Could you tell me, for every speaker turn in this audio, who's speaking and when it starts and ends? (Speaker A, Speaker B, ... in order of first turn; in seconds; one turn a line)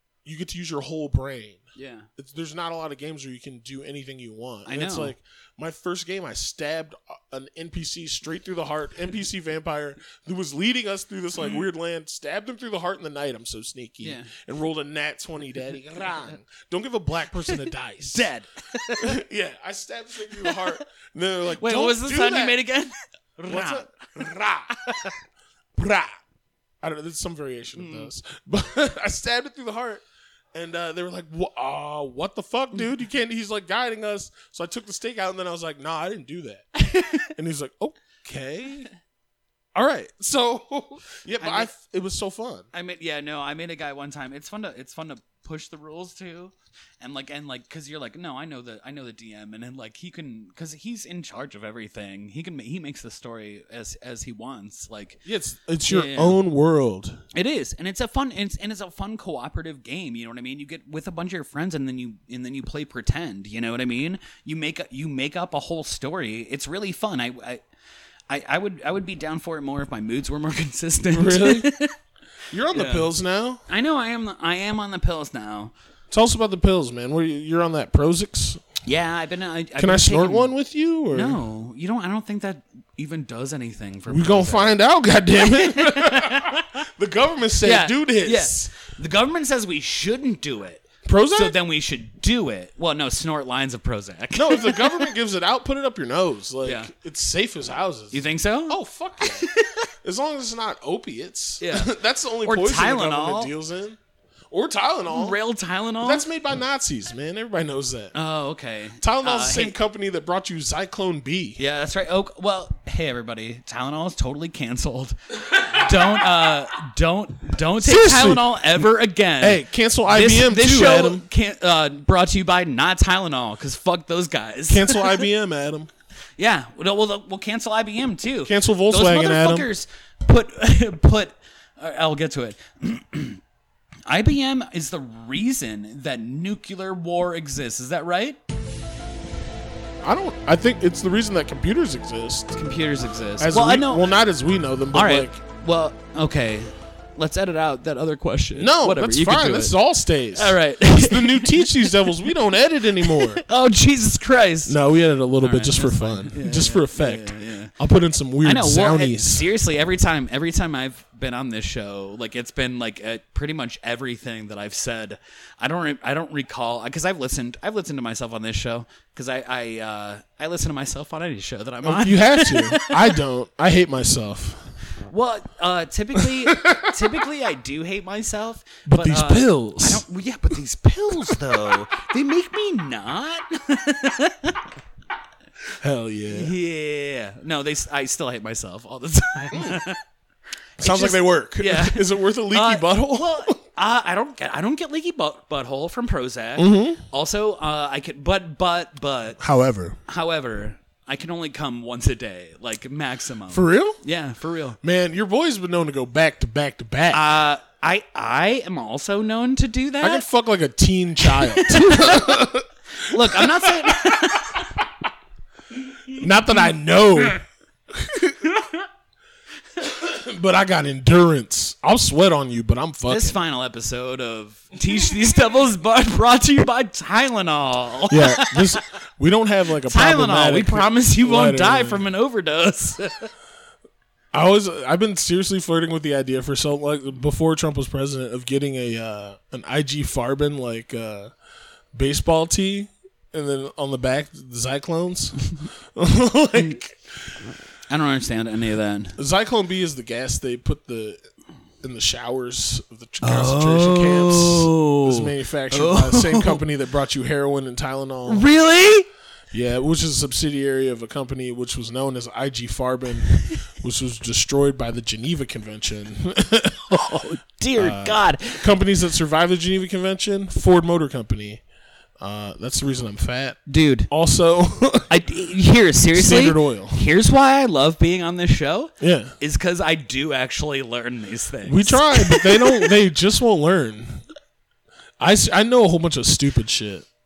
Speaker A: 0.2-1.6
Speaker B: 1.8-2.1
Speaker A: 2.2-18.3
Speaker B: 4.7-5.2
Speaker B: 14.0-14.3
Speaker B: 17.5-19.2
Speaker A: 19.0-22.6
Speaker B: 20.4-20.8
Speaker B: 21.5-23.9
Speaker A: 23.5-25.1
Speaker A: 25.8-26.2
Speaker A: 26.8-38.9
Speaker B: 27.8-28.1
Speaker B: 36.8-37.3
Speaker A: 39.8-42.7
Speaker B: 41.4-41.7
Speaker B: 42.7-55.2
Speaker A: 55.2-57.2
Speaker B: 55.9-56.4
Speaker B: 57.3-67.6
Speaker B: 68.3-71.9
Speaker A: 71.1-71.7
Speaker A: 72.5-73.6
Speaker B: 72.7-73.1
Speaker B: 73.7-75.7
Speaker A: 76.1-78.7
Speaker B: 78.8-80.5
Speaker A: 79.8-81.4
Speaker B: 81.1-84.8
Speaker A: 84.1-88.7
Speaker B: 85.4-86.8
Speaker B: 87.6-95.1
Speaker A: 91.0-91.6
Speaker A: 94.3-99.5
Speaker B: 96.6-96.9
Speaker B: 98.1-99.9
Speaker A: 100.0-104.0
Speaker B: 101.6-101.9
Speaker B: 102.4-103.5
Speaker A: 104.5-105.4
Speaker B: 105.1-106.2
Speaker A: 106.0-108.1
Speaker B: 108.1-109.8
Speaker A: 109.0-111.6
Speaker B: 111.6-125.2
Speaker A: 117.8-118.9
Speaker A: 119.4-121.2
Speaker A: 124.7-125.9
Speaker B: 126.4-133.4
Speaker A: 128.5-129.7
Speaker B: 134.1-138.4
Speaker A: 140.0-142.6
Speaker B: 142.6-144.1
Speaker A: 143.4-145.4
Speaker B: 144.9-149.8
Speaker A: 148.6-153.4
Speaker B: 150.3-151.9
Speaker B: 153.0-154.8
Speaker A: 154.7-159.4
Speaker B: 155.4-157.7
Speaker B: 158.4-173.2
Speaker A: 171.8-174.7
Speaker B: 175.0-184.7
Speaker A: 176.2-177.0
Speaker A: 178.9-180.0
Speaker A: 181.3-181.7
Speaker A: 185.8-186.5
Speaker B: 186.3-190.0
Speaker A: 189.5-189.8
Speaker A: 190.8-193.6
Speaker B: 190.8-199.4
Speaker A: 196.6-197.0
Speaker A: 199.4-200.0
Speaker B: 200.1-204.8
Speaker A: 203.5-204.0
Speaker A: 204.8-207.2
Speaker B: 207.1-210.2
Speaker A: 210.0-214.6
Speaker B: 211.2-212.4
Speaker B: 213.0-214.7
Speaker B: 216.1-216.6
Speaker A: 216.1-218.6
Speaker A: 219.8-223.4
Speaker B: 223.1-228.8
Speaker A: 228.1-232.1
Speaker B: 229.9-233.3
Speaker A: 234.3-241.3
Speaker A: 241.9-247.4
Speaker B: 247.9-249.2
Speaker A: 249.2-251.2
Speaker A: 251.8-258.5
Speaker B: 253.2-256.6
Speaker B: 258.3-259.1
Speaker A: 259.5-267.2
Speaker B: 263.3-263.6
Speaker B: 266.9-268.7
Speaker A: 267.8-271.6
Speaker A: 272.2-275.1
Speaker B: 273.7-274.1
Speaker B: 275.1-282.9
Speaker A: 276.1-277.0
Speaker A: 279.0-279.4
Speaker A: 281.6-284.2
Speaker A: 285.2-287.1